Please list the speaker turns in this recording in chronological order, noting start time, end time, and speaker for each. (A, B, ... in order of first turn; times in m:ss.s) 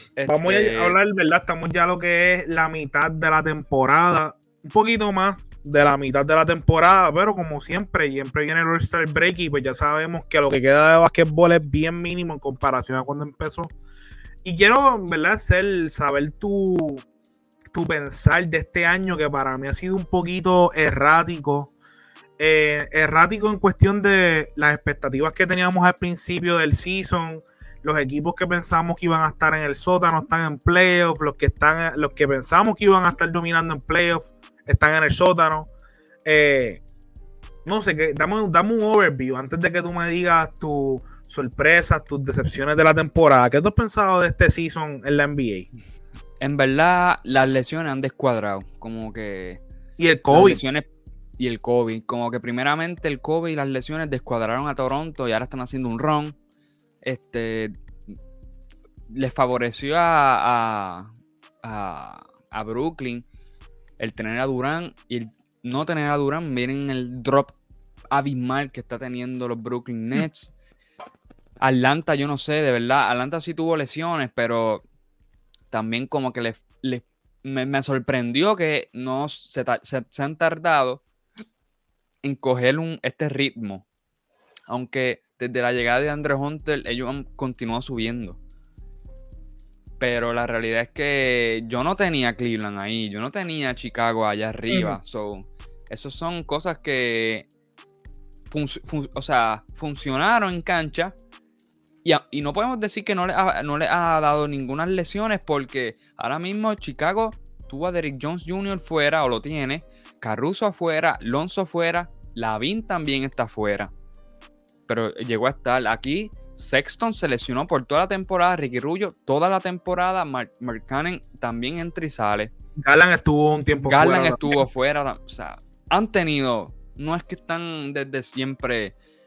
0:00.2-0:01.0 A
0:00.3-0:13.7 B
0:14.4-0:17.0 B
0:17.7-0:21.7 B
0:22.4-0:35.7 B
0:36.2-0:36.8 B
0:37.6-0:45.7 B
0:46.4-0:49.6 A
0:50.0-0:50.6 B
0:50.3-0:50.9 A
0:51.4-0:56.4 A
0:57.0-0:57.7 A
0:59.1-1:01.1 A
1:01.6-1:03.2 A
1:04.0-1:07.5 A
1:08.1-1:10.5 A
1:11.6-1:14.8 A
1:15.7-1:21.0 A
1:22.2-1:23.8 A
1:24.7-1:28.4 A
1:30.0-1:37.5 A
1:34.7-1:35.0 B
1:38.5-1:41.1 A
1:42.0-1:53.9 A
1:54.9-2:02.5 A
2:02.8-2:04.6 B
2:03.9-2:09.0 A